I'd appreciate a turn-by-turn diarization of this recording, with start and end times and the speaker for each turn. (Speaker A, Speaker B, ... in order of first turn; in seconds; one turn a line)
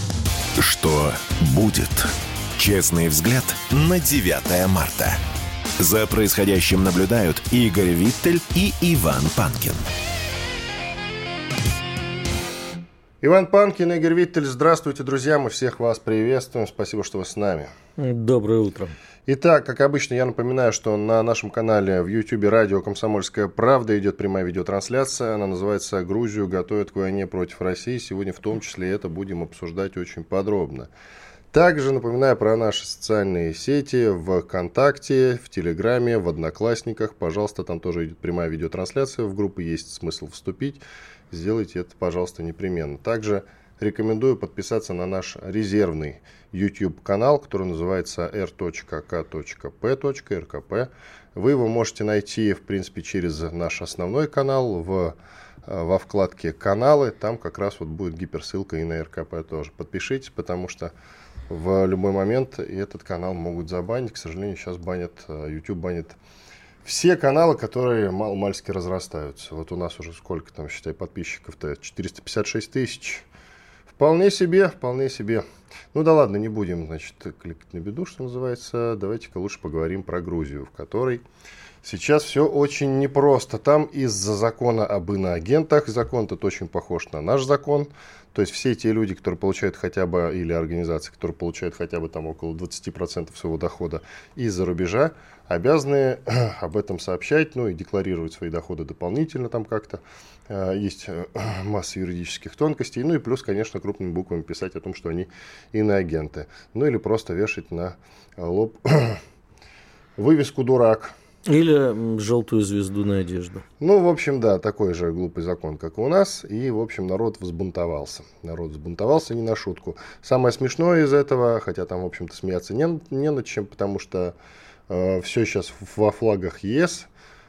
Speaker A: 0.6-5.2
Speaker A: 5.8-9.9
Speaker B: 13.2-17.7
Speaker C: 18.0-18.9
Speaker B: 19.3-30.9
Speaker B: 31.5-60.9
Speaker B: 61.5-66.2
Speaker B: 66.8-73.3
Speaker B: 73.9-81.2
Speaker B: 81.8-109.2
Speaker B: 110.2-111.2
Speaker C: 111.5-113.6
Speaker B: 113.8-124.3
Speaker B: 124.9-127.1